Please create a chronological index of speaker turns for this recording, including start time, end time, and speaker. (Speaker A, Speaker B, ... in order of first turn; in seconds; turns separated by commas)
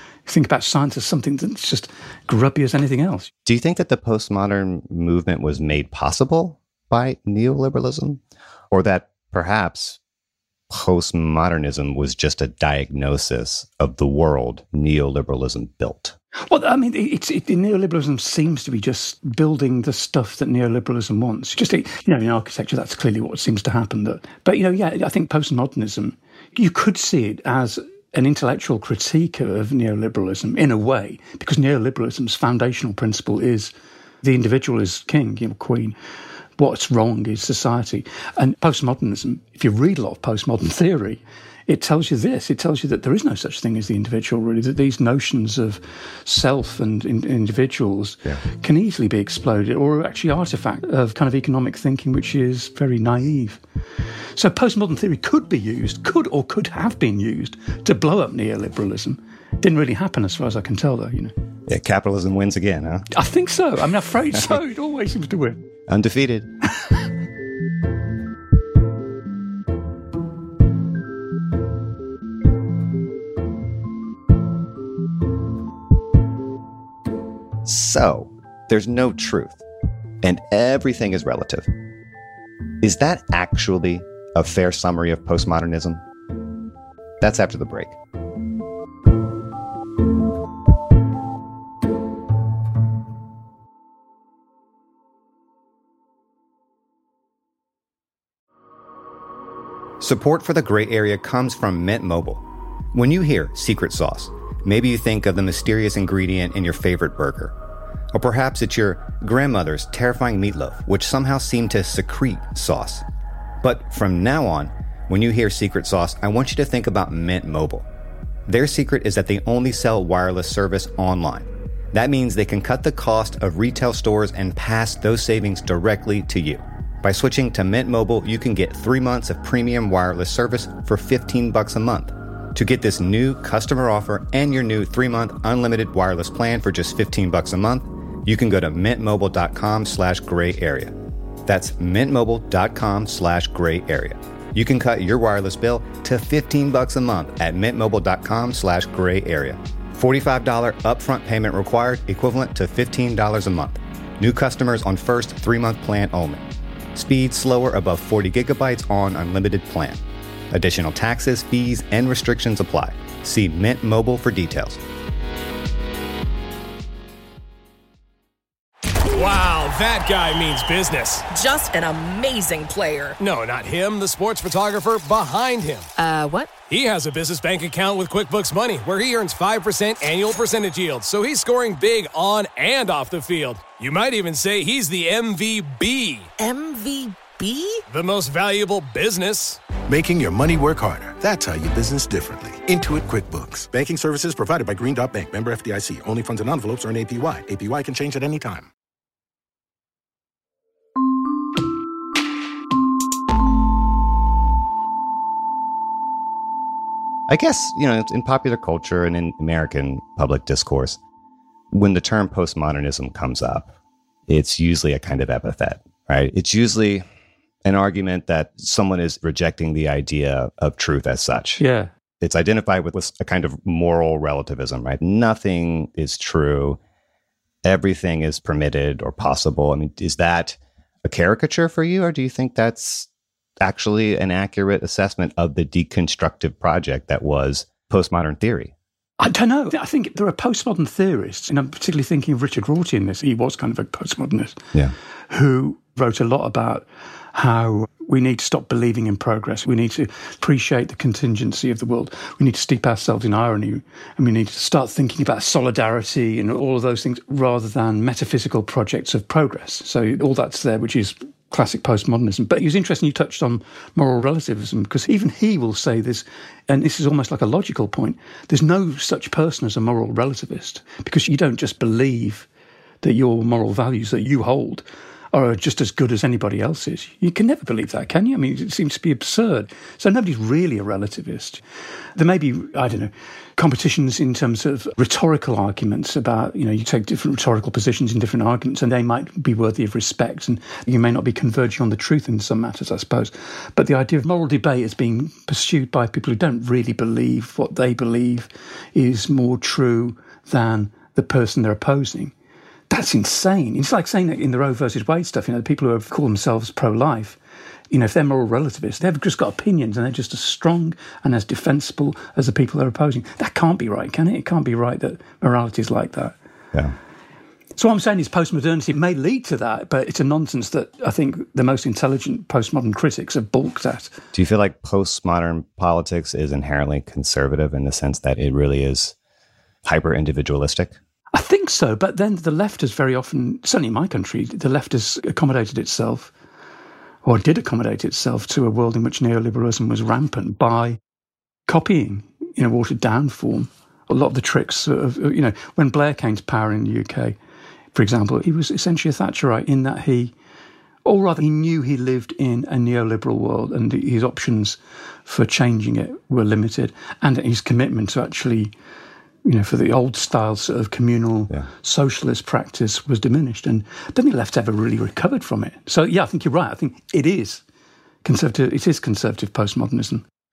Speaker A: 0.2-3.3, Speaker B: 3.4-8.2, Speaker B: 8.7-10.0, Speaker B: 10.7-16.1, Speaker A: 16.5-36.0, Speaker A: 36.6-53.6, Speaker A: 54.3-61.3, Speaker B: 61.7-63.1, Speaker A: 63.1-65.6, Speaker B: 65.9-66.5, Speaker B: 77.6-79.6, Speaker B: 80.2-81.7, Speaker B: 82.8-86.0, Speaker B: 87.2-88.0, Speaker B: 100.0-107.5, Speaker B: 108.1-113.0, Speaker B: 113.6-117.9, Speaker B: 118.5-164.8, Speaker C: 169.1-171.3, Speaker D: 171.3-173.2, Speaker C: 173.2-175.9, Speaker D: 176.0-176.5, Speaker C: 176.7-186.3, Speaker D: 186.4-187.8, Speaker C: 187.9-189.6, Speaker E: 189.9-198.7, Speaker B: 207.3-211.0, Speaker B: 211.7-213.7, Speaker B: 214.3-217.0, Speaker B: 217.6-221.6, Speaker A: 221.6-221.9, Speaker B: 222.2-226.8, Speaker B: 227.6-233.1, Speaker B: 233.6-238.7, Speaker A: 239.2-244.6, Speaker A: 245.3-272.5, Speaker A: 273.0-281.6, Speaker A: 282.1-302.3, Speaker A: 302.9-307.4, Speaker A: 307.9-316.3, Speaker A: 317.8-324.1, Speaker B: 324.3-329.1, Speaker B: 329.8-331.0, Speaker A: 331.3-336.3, Speaker A: 337.2-341.0, Speaker A: 341.7-347.4, Speaker A: 347.9-350.3, Speaker A: 351.0-358.7, Speaker A: 359.4-367.6, Speaker A: 368.2-370.2